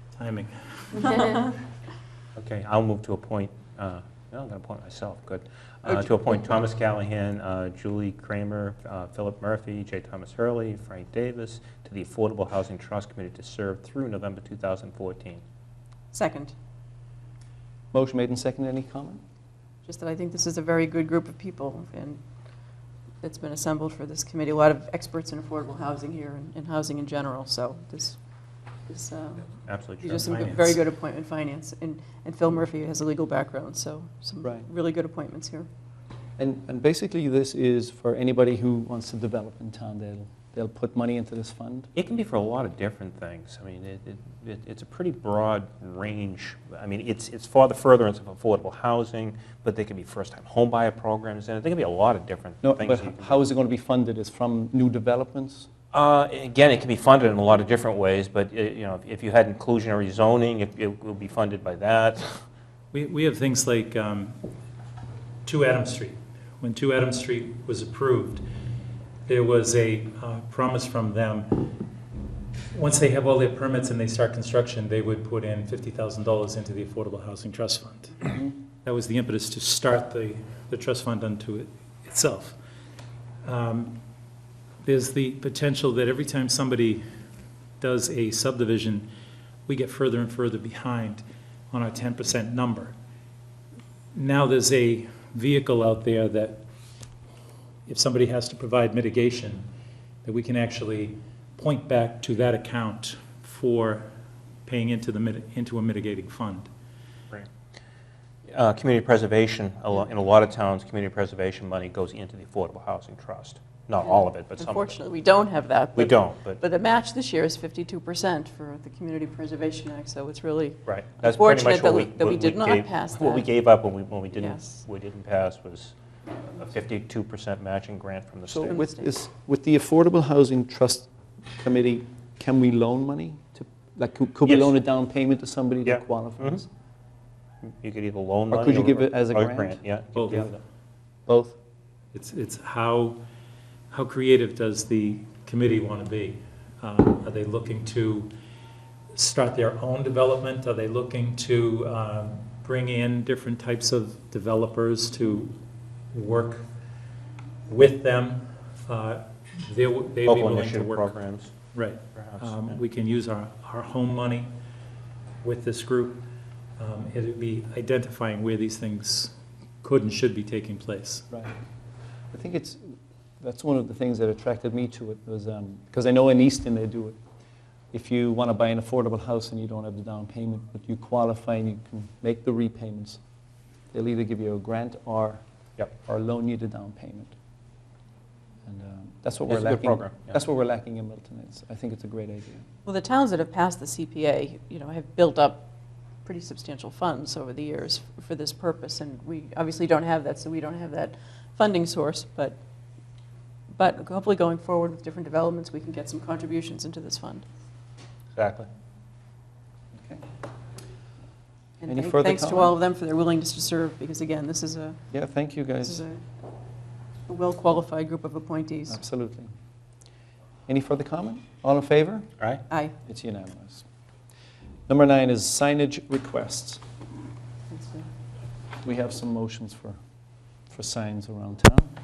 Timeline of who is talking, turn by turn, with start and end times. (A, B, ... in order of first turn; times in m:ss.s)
0:00.2-0:01.1 A
0:01.0-0:01.5 B
0:02.4-0:15.4 C
0:05.9-0:06.4 B
0:16.1-0:16.5 B
0:17.9-0:19.2 D
0:19.8-0:22.2 B
0:23.2-0:28.2 B
0:28.9-0:35.7 B
0:29.6-0:30.3 C
0:30.1-0:30.7 A
0:36.4-0:41.9 D
0:42.0-0:53.4 C
0:52.6-0:55.7 D
0:55.9-1:02.4 C
1:02.9-1:04.4 A
1:05.4-1:08.4 A
1:09.3-1:11.8 A
1:12.7-1:18.3 A
1:18.8-1:22.6 A
1:23.4-1:24.0 A
1:24.8-1:27.0 A
1:27.8-1:29.1 A
1:29.7-1:33.0 A
1:34.2-1:36.6 A
1:37.9-1:39.7 A
1:40.2-1:44.1 A
1:44.7-1:46.7 A
1:48.5-1:55.0 C
1:54.0-2:03.5 B
1:56.0-1:56.6 C
2:00.9-2:06.0 C
2:04.4-2:04.8 B
2:06.6-2:08.8 C
2:08.5-2:16.7 D
2:08.7-2:09.1 B
2:14.5-2:14.7 C
2:15.9-2:16.6 C
2:17.6-2:20.6 C
2:18.5-2:20.5 D
2:20.2-2:20.5 A
2:21.3-2:21.6 D
2:22.1-2:23.2 A
2:23.9-2:28.3 A
2:29.1-2:35.6 A
2:36.1-2:36.7 A
2:37.7-2:41.1 A
2:40.2-2:41.5 C
2:41.7-2:44.5 A
2:42.1-2:42.8 C
2:45.4-2:46.3 A
2:46.8-2:51.3 A
2:52.3-2:57.2 D
2:57.9-3:03.2 D
3:03.9-3:07.4 D
3:08.7-3:12.6 D
3:09.5-3:10.4 C
3:12.9-3:15.7 B
3:16.2-3:22.6 B
3:23.8-3:27.4 B
3:28.4-3:28.7 C
3:30.0-3:30.2 D
3:31.8-3:35.0 B
3:31.9-3:32.8 D
3:35.1-3:36.0 D
3:35.8-3:36.2 B
3:37.3-3:39.0 B
3:38.9-3:39.5 D
3:40.7-3:42.3 D
3:43.0-3:43.8 D
3:44.9-3:46.8 D
3:47.7-3:48.1 B
3:48.8-3:50.0 D
3:50.7-3:51.9 D